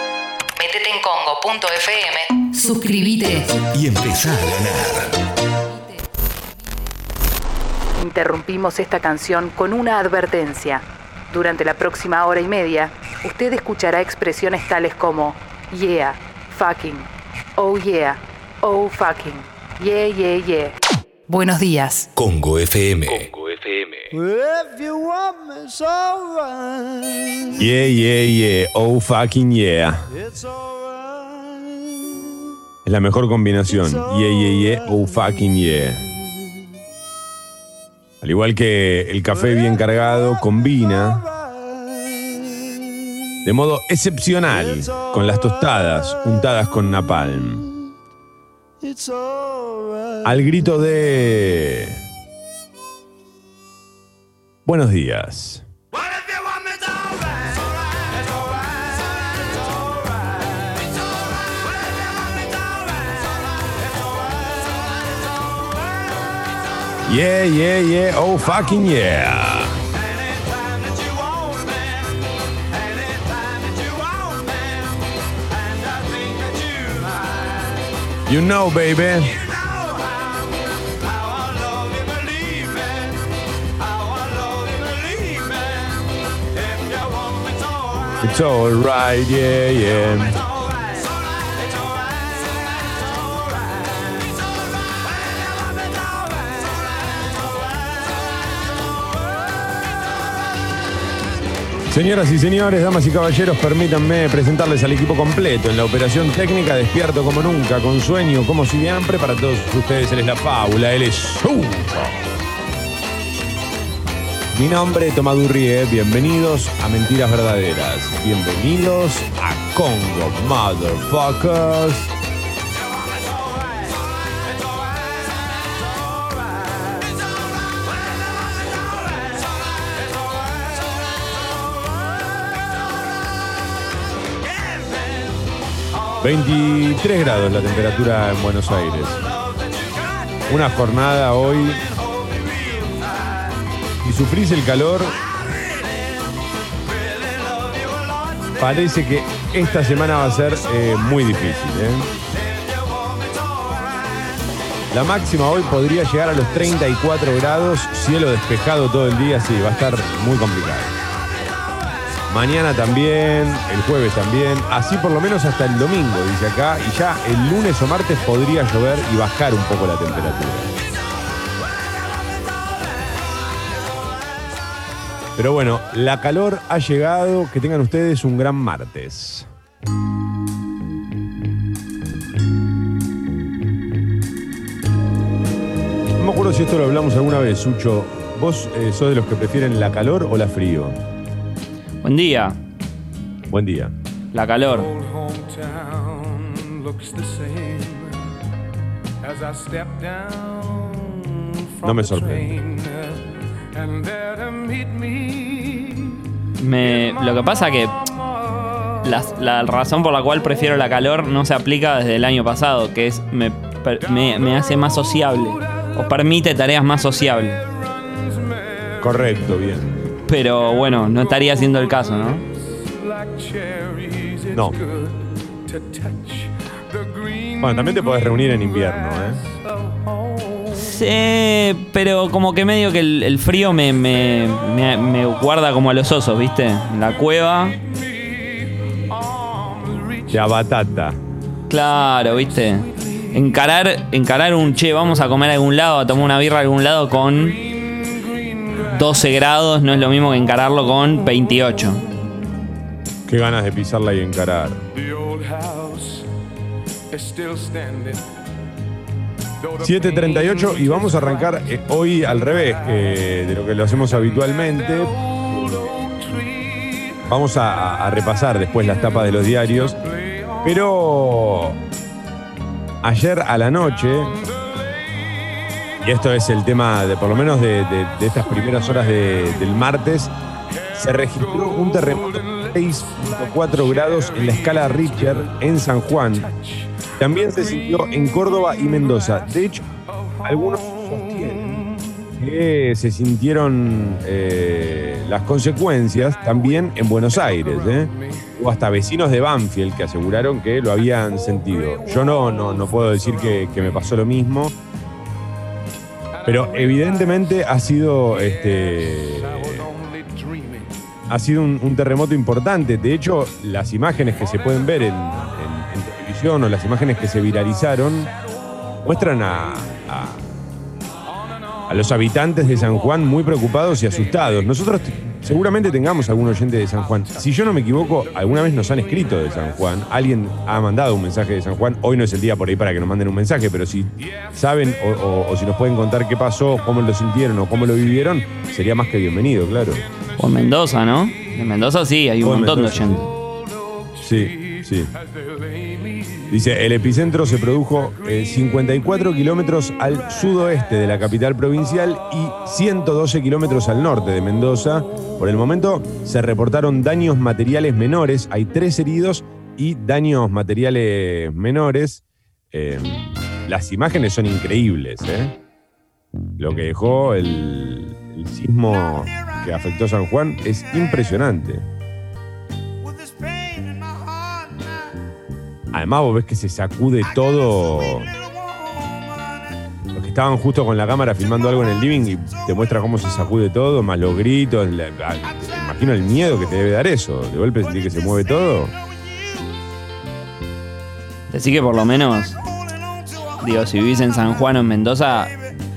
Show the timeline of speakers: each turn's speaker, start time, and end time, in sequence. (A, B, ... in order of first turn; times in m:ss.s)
0:00.6-0:03.5 A
0:03.7-0:05.1 B
0:08.0-0:20.8 A
0:21.3-0:22.1 A
0:22.1-0:24.1 B
0:24.2-0:27.5 C
0:27.6-0:30.1 D
0:32.8-0:36.0 D
0:38.2-0:41.3 D
0:43.4-0:47.7 D
0:50.2-0:52.0 D
0:54.6-0:55.6 D
1:07.0-1:09.8 D
1:16.7-1:17.1 C
1:18.2-1:19.4 D
1:28.2-1:30.4 D
1:41.9-1:52.3 D
1:54.5-2:02.1 D
2:16.2-2:19.2 D
2:20.5-2:21.8 D
2:24.0-2:25.2 D
2:28.5-2:32.1 D
2:34.9-2:41.0 D
2:42.3-2:50.7 D
2:55.4-2:59.5 D
3:06.2-3:11.0 D
3:12.0-3:12.6 E
3:13.5-3:13.9 D
3:14.3-3:14.9 E
3:15.2-3:18.0 C
3:19.5-3:20.8 C
3:21.8-3:22.7 D
3:24.4-3:24.8 C
3:26.6-3:27.9 E
3:29.0-3:37.6 E
3:39.0-3:40.0 D
3:40.2-3:42.4 E
3:43.5-3:44.4 C
3:44.5-3:44.8 D
3:45.8-3:46.2 C
3:47.6-3:49.5 D
3:50.7-3:57.8 E
4:00.3-4:01.2 D
4:01.7-4:07.6 E
4:08.7-4:12.0 E
4:13.3-4:14.8 D
4:15.4-4:16.0 C
4:17.1-4:18.2 C
4:19.8-4:26.1 D
4:27.2-4:30.0 D
4:30.6-4:31.8 D
4:33.0-4:34.4 D
4:36.0-4:40.3 D
4:40.9-4:46.5 D
4:47.2-4:49.8 D
4:50.4-5:04.7 D
5:06.4-5:10.0 D
5:11.3-5:18.3 D
5:19.0-5:20.4 D
5:21.9-5:40.0 D
5:40.4-5:43.3 E
5:42.4-5:43.2 D
5:44.2-5:45.1 D
5:46.5-6:05.5 D
6:06.6-6:11.8 D
6:15.9-6:18.3 D
6:20.1-6:28.9 D
6:31.5-6:32.6 E
6:33.6-6:35.5 E